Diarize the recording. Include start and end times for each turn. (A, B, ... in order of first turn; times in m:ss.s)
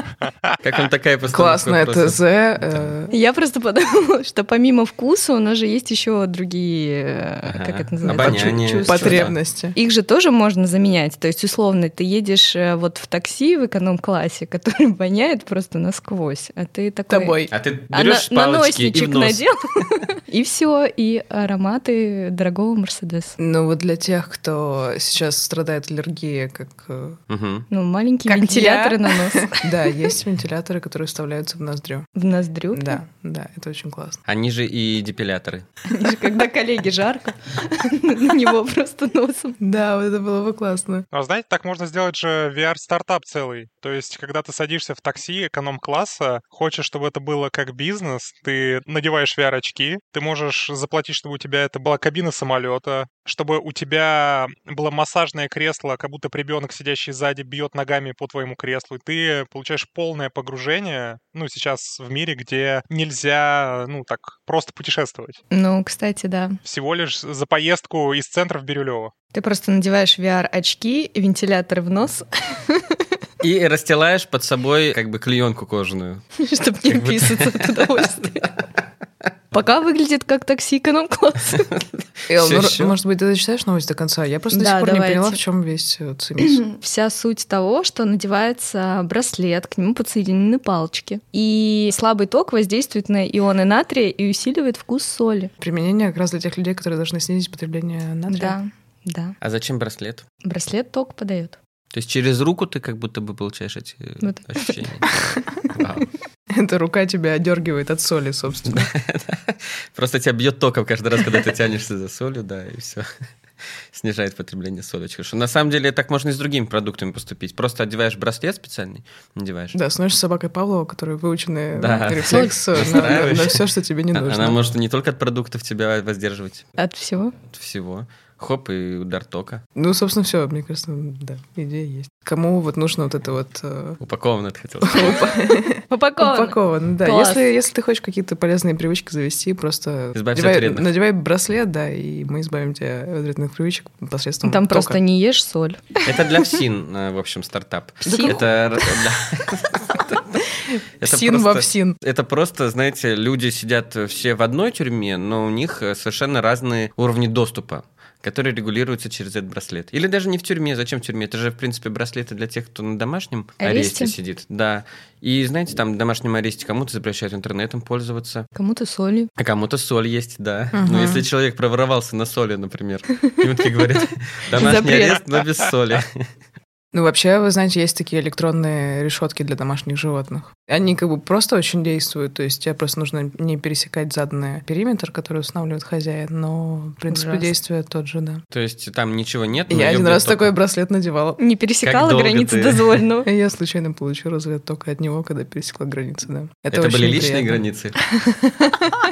0:00.6-0:02.9 A
0:01.3-0:03.1 B
0:03.1-0:17.4 C
0:07.5-0:09.4 A
0:08.0-0:09.8 B
0:17.1-0:17.5 B
0:17.5-0:19.4 A
0:17.9-0:23.4 C
0:23.4-0:27.2 B
0:27.3-0:27.7 A
0:27.7-0:29.7 C
0:28.3-0:32.1 B
0:32.2-0:33.0 C
0:32.7-0:34.2 B
0:34.3-0:35.7 A
0:35.9-0:39.6 C
0:39.6-0:41.0 B
0:41.1-1:05.4 D
1:05.5-1:06.6 C
1:06.6-1:09.1 D
1:09.3-1:13.0 C
1:13.4-1:16.2 A
1:16.4-1:18.5 C
1:16.9-1:18.5 A
1:19.5-1:21.7 C
1:21.5-1:23.0 A
1:22.3-1:26.6 B
1:24.5-1:25.4 C
1:26.5-1:35.5 C
1:35.6-1:38.6 B
1:38.3-1:39.4 C
1:39.4-1:40.2 A
1:40.4-1:41.6 C
1:41.9-1:45.2 A
1:44.2-1:44.8 C
1:45.7-1:46.1 A
1:46.5-1:48.9 B
1:48.7-1:53.1 A
1:53.9-1:59.8 A
1:59.7-2:04.6 B
2:01.7-2:06.6 A
2:02.2-2:03.2 C
2:06.8-2:07.4 C
2:07.4-2:09.6 A
2:09.8-2:14.0 B
2:14.0-2:15.2 A
2:14.8-2:25.0 B
2:15.9-2:17.5 C
2:20.1-2:20.9 A
2:24.4-2:26.0 C
2:26.0-2:30.4 A
2:28.0-2:28.4 C
2:28.1-2:28.4 B
2:31.0-2:48.5 A
2:31.0-2:32.0 B
2:43.6-2:44.1 C
2:48.6-2:49.3 C
2:49.4-2:56.2 A
2:50.7-2:51.3 B
2:54.5-2:55.3 C
2:56.9-3:08.4 B
3:07.1-3:07.5 C
3:08.5-3:10.5 A
3:09.7-3:11.4 B
3:11.4-3:13.3 C
3:11.8-3:13.0 A
3:13.2-3:17.6 B
3:16.7-3:18.0 A
3:18.2-3:18.8 C